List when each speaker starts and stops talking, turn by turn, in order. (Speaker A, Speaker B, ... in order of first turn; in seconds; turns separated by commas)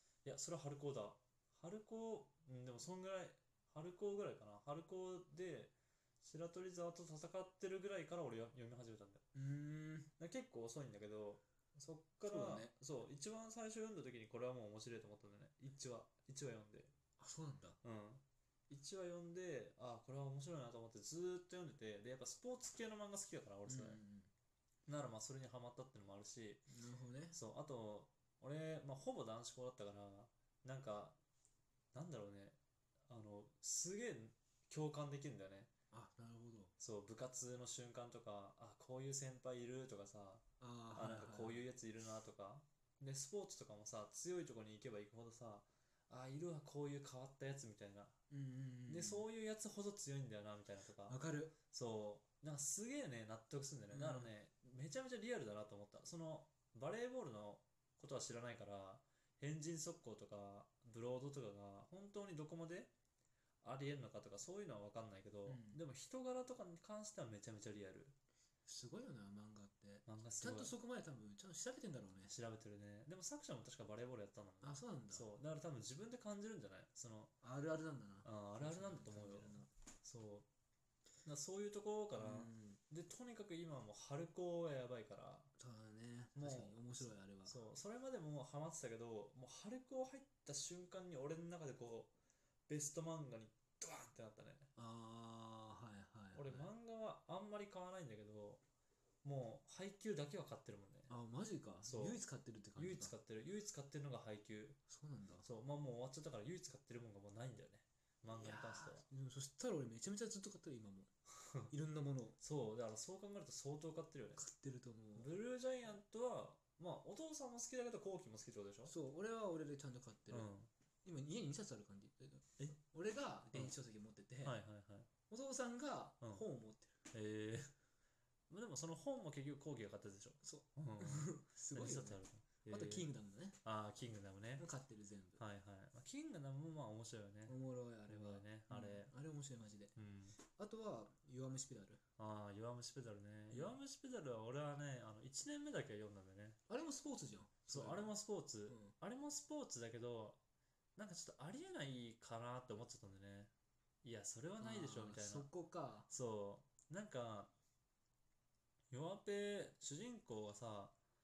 Speaker A: 0.2-9.2, Speaker B: 9.3-10.1, Speaker A: 10.2-16.9, Speaker B: 12.2-12.7, Speaker B: 17.2-17.8, Speaker A: 17.8-24.0, Speaker B: 23.7-24.3, Speaker A: 24.9-26.6, Speaker B: 26.7-27.4, Speaker A: 27.3-31.2, Speaker A: 31.9-32.6, Speaker A: 33.1-35.7, Speaker B: 35.9-36.7, Speaker A: 36.8-40.4, Speaker B: 40.6-41.6, Speaker A: 40.9-48.1, Speaker B: 48.3-49.2, Speaker A: 48.9-51.1, Speaker B: 51.1-51.5, Speaker A: 51.7-62.9, Speaker B: 53.9-54.3, Speaker A: 63.6-68.2, Speaker B: 65.5-65.8, Speaker B: 68.7-72.3, Speaker A: 70.0-70.7, Speaker A: 72.3-77.3, Speaker B: 74.6-75.3, Speaker B: 77.4-79.7, Speaker A: 78.2-80.5, Speaker A: 81.2-85.5, Speaker B: 82.2-82.8, Speaker B: 85.6-87.6, Speaker A: 86.3-92.1, Speaker A: 92.7-94.7, Speaker B: 94.8-96.7, Speaker A: 96.3-98.6, Speaker A: 99.2-101.1, Speaker B: 101.1-103.1, Speaker A: 101.8-102.2, Speaker A: 102.8-104.8, Speaker B: 104.9-105.5, Speaker A: 105.4-109.0, Speaker B: 108.3-111.1, Speaker B: 111.7-112.4, Speaker A: 112.4-114.4, Speaker B: 114.4-115.3, Speaker A: 115.1-118.9, Speaker B: 118.9-120.5, Speaker A: 120.3-120.7, Speaker B: 121.0-124.5, Speaker A: 124.4-125.1, Speaker B: 125.3-126.9, Speaker A: 127.1-127.7, Speaker A: 128.5-133.1, Speaker B: 130.4-133.6, Speaker A: 133.6-134.6, Speaker B: 134.6-135.4, Speaker A: 135.4-137.6, Speaker B: 137.5-142.0, Speaker A: 138.1-139.1, Speaker A: 139.9-140.4, Speaker A: 142.2-146.6, Speaker B: 143.5-143.8, Speaker B: 146.7-148.1, Speaker A: 147.7-150.4, Speaker B: 148.7-148.9, Speaker A: 150.9-153.5, Speaker A: 154.0-155.5, Speaker B: 154.6-156.1, Speaker A: 156.1-157.5, Speaker A: 158.9-160.9